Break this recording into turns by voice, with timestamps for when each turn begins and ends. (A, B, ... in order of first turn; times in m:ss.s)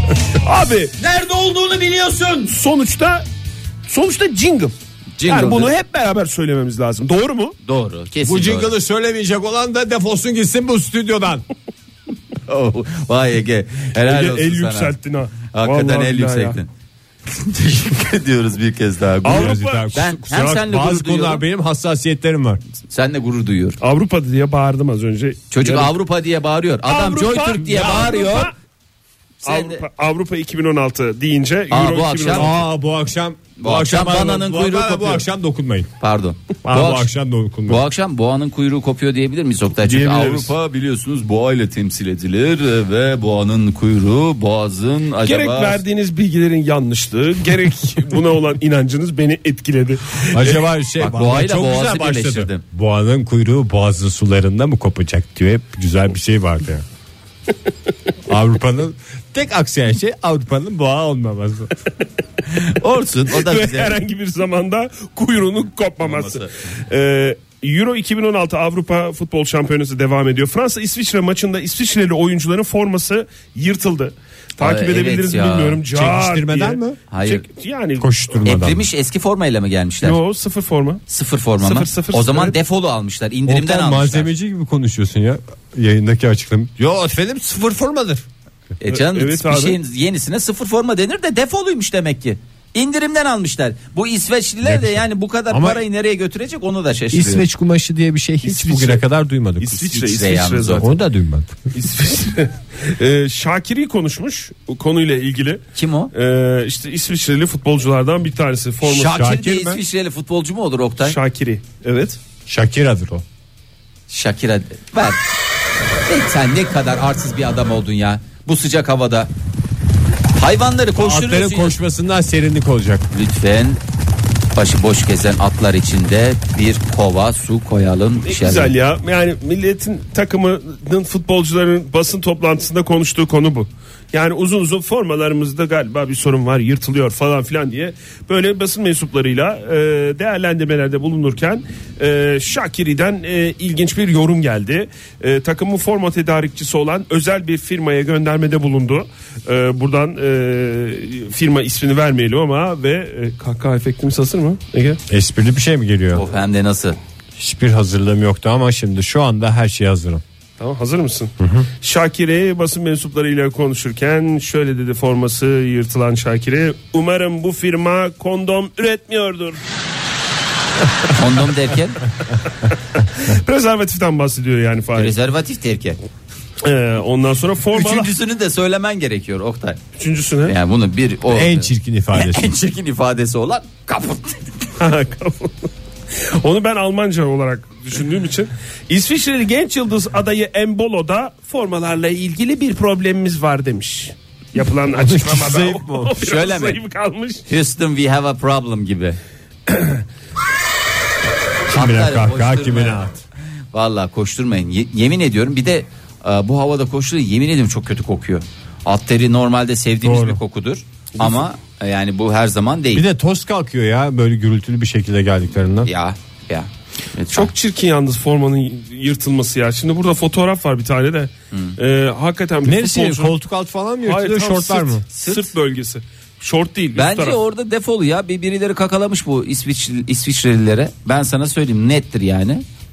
0:00.4-0:01.0 A
0:01.0-0:02.5 B
0:02.5-0:03.3 A
0:03.9-0:04.7 A
0:05.2-0:05.7 B
0:05.2-0:07.6 A
0:07.6-0:08.8 B
0:08.2-0:11.4 C
0:12.5-0:16.7 B
0:14.0-0:16.6 A
0:17.3-0:21.4 B
0:19.2-0:19.9 A
0:19.2-0:22.6 C
0:22.9-0:23.8 B
0:23.8-0:25.9 A
0:25.5-0:28.5 B
0:26.9-0:28.5 A
0:29.4-0:32.5 A
0:29.4-0:29.9 B
0:31.7-0:32.6 B
0:32.3-0:35.9 C
0:33.6-0:35.2 B
0:36.0-0:37.1 B
0:36.6-0:37.8 C
0:37.7-0:45.8 B
0:39.8-0:40.5 A
0:45.2-0:50.5 A
0:50.3-0:56.8 C
0:51.0-0:52.6 B
0:58.3-1:01.7 C
1:02.5-1:04.0 B
1:03.3-1:18.1 A
1:06.0-1:06.5 B
1:14.6-1:15.8 B
1:15.9-1:17.0 C
1:17.1-1:17.4 B
1:18.0-1:18.8 C
1:18.5-1:20.2 B
1:20.0-1:21.0 A
1:21.1-1:24.3 B
1:21.6-1:22.6 A
1:23.5-1:28.2 C
1:28.8-1:37.4 B
1:28.9-1:29.8 A
1:34.6-1:35.8 C
1:37.1-1:40.1 C
1:38.4-1:39.0 A
1:39.6-1:40.9 A
1:40.0-1:40.9 B
1:40.8-1:41.7 C
1:41.7-1:49.2 A
1:45.8-1:46.1 B
1:48.8-1:51.2 B
1:49.1-1:49.8 C
1:51.0-1:52.2 A
1:52.5-1:53.2 C
1:54.1-1:55.2 B
1:56.1-1:59.3 B
2:00.4-2:01.8 B
2:01.0-2:03.1 C
2:03.1-2:03.8 B
2:04.6-2:08.7 B
2:08.3-2:35.0 A
2:35.1-2:36.2 C
2:36.1-2:37.0 B
2:37.4-2:40.2 C
2:40.6-2:49.6 A
2:41.4-2:41.7 C
2:51.2-2:52.0 B
2:53.2-2:55.2 A
2:55.0-2:56.0 B
2:56.6-2:58.1 A
2:57.7-2:59.8 B
3:00.0-3:00.6 A
3:00.5-3:04.4 B
3:01.3-3:02.6 C
3:04.8-3:17.5 A
3:15.0-3:16.2 C
3:16.2-3:16.8 B
3:17.5-3:19.2 B
3:19.7-3:20.0 A
3:21.7-3:23.2 C
3:21.7-3:23.1 B
3:23.7-3:33.0 B
3:30.0-3:30.4 C
3:32.9-3:35.9 C
3:35.8-3:37.5 B
3:37.3-3:43.3 A
3:42.6-3:45.0 C
3:44.0-3:47.4 A
3:45.1-3:45.5 B
3:47.0-3:52.6 B